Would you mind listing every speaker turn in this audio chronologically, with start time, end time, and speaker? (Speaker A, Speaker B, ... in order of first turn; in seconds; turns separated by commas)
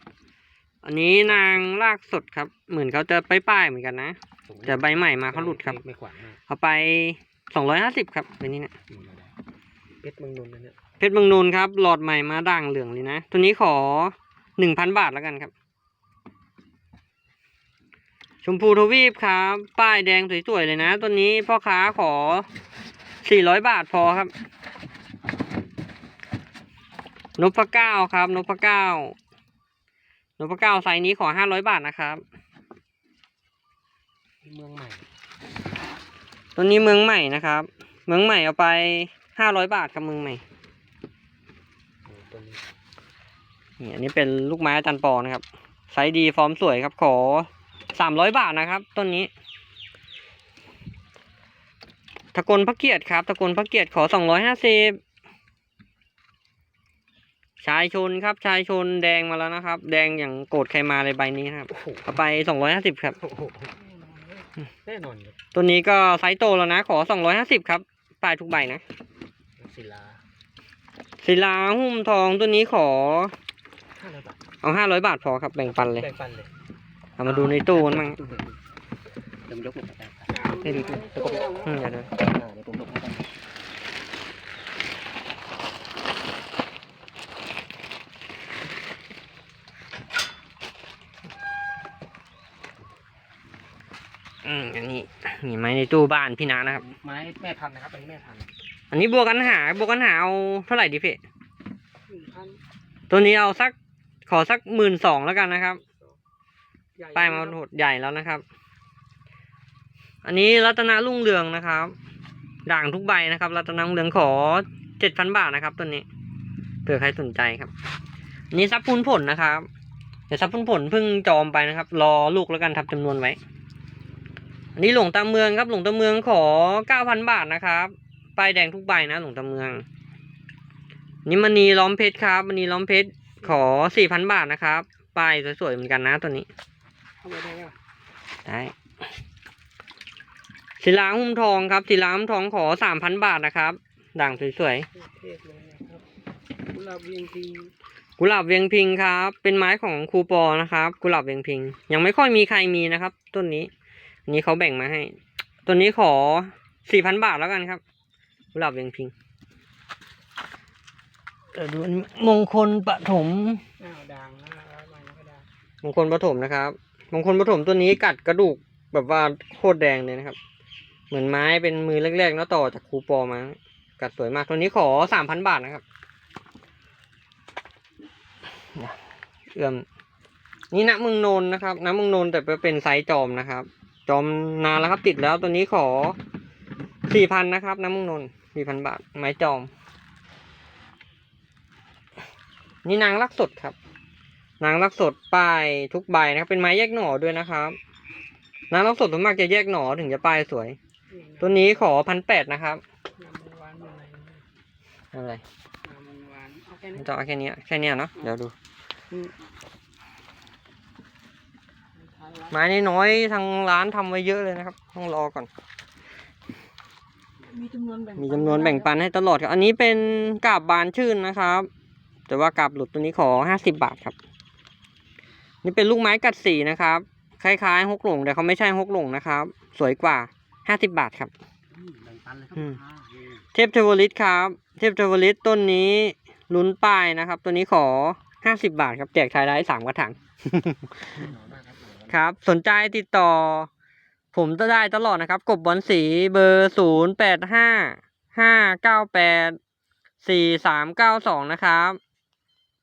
Speaker A: 0.8-5.8, Speaker B: 1.3-1.7, Speaker B: 4.5-6.4, Speaker A: 6.5-8.7, Speaker B: 8.9-9.3, Speaker B: 10.0-10.8, Speaker A: 11.0-15.5, Speaker A: 18.4-22.5, Speaker A: 23.2-24.3, Speaker A: 27.4-29.2, Speaker A: 30.4-32.2, Speaker B: 34.4-35.1, Speaker A: 36.6-40.4, Speaker B: 42.0-42.6, Speaker A: 43.8-49.3, Speaker A: 52.3-55.0, Speaker A: 57.6-63.2, Speaker B: 61.7-62.1, Speaker B: 63.2-63.8, Speaker C: 63.8-64.5, Speaker B: 64.8-65.4, Speaker A: 65.5-68.8, Speaker B: 69.6-70.2, Speaker A: 71.2-73.3, Speaker B: 73.9-74.4, Speaker A: 74.6-76.1, Speaker B: 75.6-76.5, Speaker A: 77.2-78.2, Speaker B: 77.2-78.6, Speaker B: 79.5-83.3, Speaker C: 80.3-82.0, Speaker A: 80.7-81.0, Speaker A: 81.6-82.1, Speaker A: 94.4-96.8, Speaker B: 96.7-98.5, Speaker A: 98.9-101.2, Speaker C: 102.1-102.6, Speaker A: 103.1-103.8, Speaker A: 104.3-105.8, Speaker C: 107.0-107.6, Speaker A: 107.2-108.4, Speaker A: 110.2-112.0, Speaker A: 112.7-116.1, Speaker A: 116.9-117.7, Speaker A: 118.5-119.7, Speaker A: 120.3-123.4, Speaker A: 124.8-129.8, Speaker A: 131.3-136.5, Speaker C: 137.2-137.8, Speaker A: 138.4-138.8, Speaker A: 140.8-144.9, Speaker C: 144.9-146.1, Speaker C: 146.7-147.7, Speaker A: 148.2-153.7, Speaker A: 154.3-157.8, Speaker A: 158.5-159.1, Speaker A: 161.6-163.6, Speaker C: 163.8-165.5, Speaker A: 165.8-170.4, Speaker A: 171.1-175.8, Speaker A: 179.5-179.8, Speaker A: 180.7-186.2, Speaker A: 187.1-189.7, Speaker A: 192.8-193.8, Speaker A: 194.6-197.8, Speaker A: 198.7-200.8, Speaker C: 201.1-201.9, Speaker A: 201.4-202.8, Speaker C: 203.2-204.4, Speaker A: 205.1-205.4, Speaker C: 205.8-207.1, Speaker A: 207.0-208.5, Speaker C: 212.0-212.6, Speaker A: 212.5-215.5, Speaker C: 217.4-218.9, Speaker A: 218.2-221.7, Speaker A: 222.3-224.2, Speaker A: 225.6-231.3, Speaker B: 231.7-233.5, Speaker A: 233.5-241.0, Speaker B: 241.1-242.2, Speaker A: 242.1-243.7, Speaker A: 244.3-249.6, Speaker A: 250.2-252.0